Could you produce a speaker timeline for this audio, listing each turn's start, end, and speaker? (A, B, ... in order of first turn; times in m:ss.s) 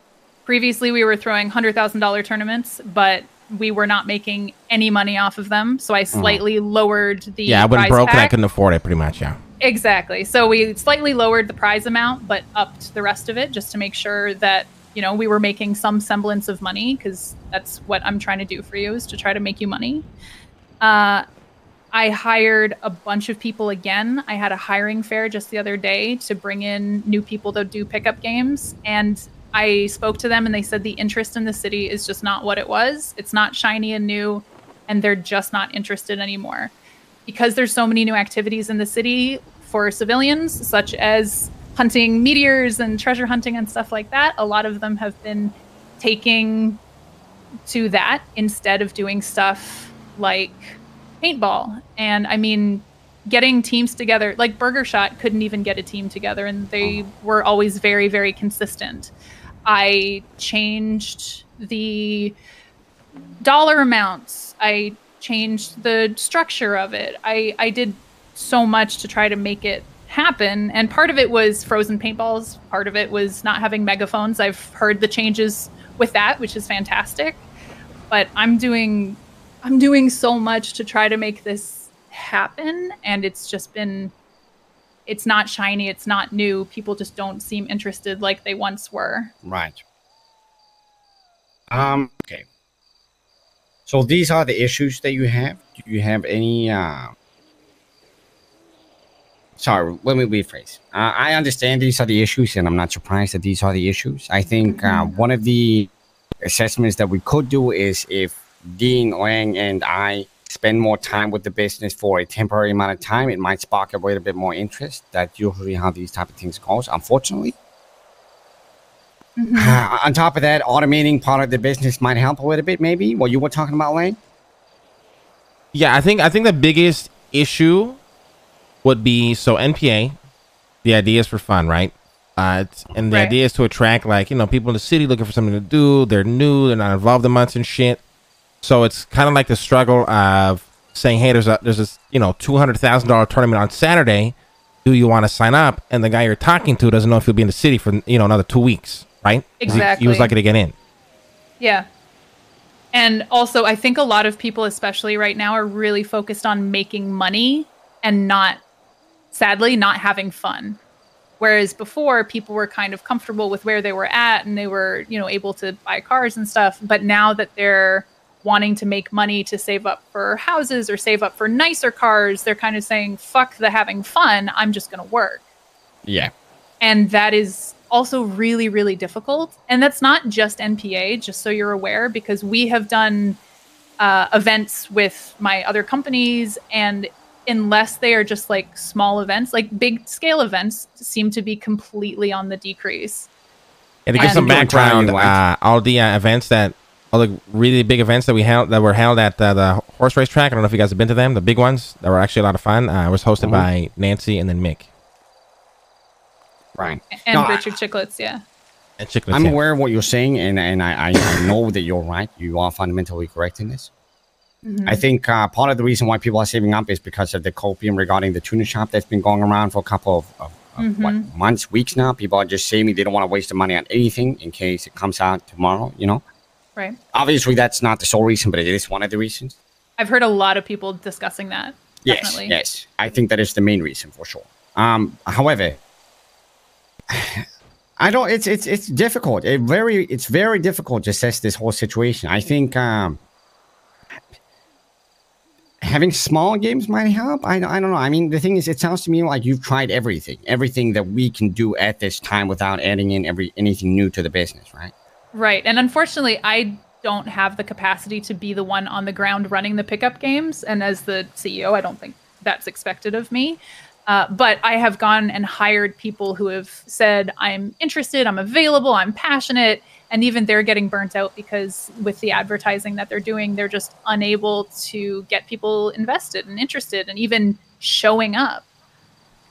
0:00.4-0:08.3 A
0:06.1-0:06.4 B
0:07.5-0:09.4 C
0:09.6-0:20.0 A
0:20.8-0:21.2 A
0:21.9-0:36.7 A
0:37.2-0:46.8 A
0:47.7-0:59.1 A
0:59.6-1:02.4 A
1:03.4-1:17.4 A
1:18.1-1:24.1 A
1:25.1-1:29.3 A
1:29.4-1:29.8 B
1:31.7-1:32.4 B
1:33.9-1:37.1 B
1:39.6-1:45.9 B
1:44.6-1:45.1 A
1:46.4-1:57.5 B
1:59.4-1:59.8 A
1:59.6-2:04.2 B
2:05.7-2:08.0 C
2:08.8-2:10.1 C
2:10.8-2:18.0 C
2:18.6-2:30.7 C
2:29.6-2:30.3 A
2:31.6-2:31.9 A
2:32.9-2:38.6 A
2:39.3-2:40.8 A
2:41.4-2:55.4 A
2:56.0-2:56.3 B
2:56.8-3:03.4 A
3:04.0-3:13.3 A
3:14.0-3:24.8 C
3:14.2-3:15.4 B
3:14.2-3:14.6 A
3:23.4-3:23.7 B
3:26.8-3:27.7 B
3:27.1-3:28.4 A
3:29.0-3:29.6 C
3:29.3-3:33.9 B
3:34.6-3:35.0 A
3:34.8-3:46.2 B
3:40.8-3:41.3 A
3:47.1-3:49.6 B
3:50.0-3:52.5 A
3:52.0-3:55.8 B
3:57.1-3:57.4 B
3:58.0-4:03.2 B
4:05.8-4:14.9 B
4:15.3-4:38.6 A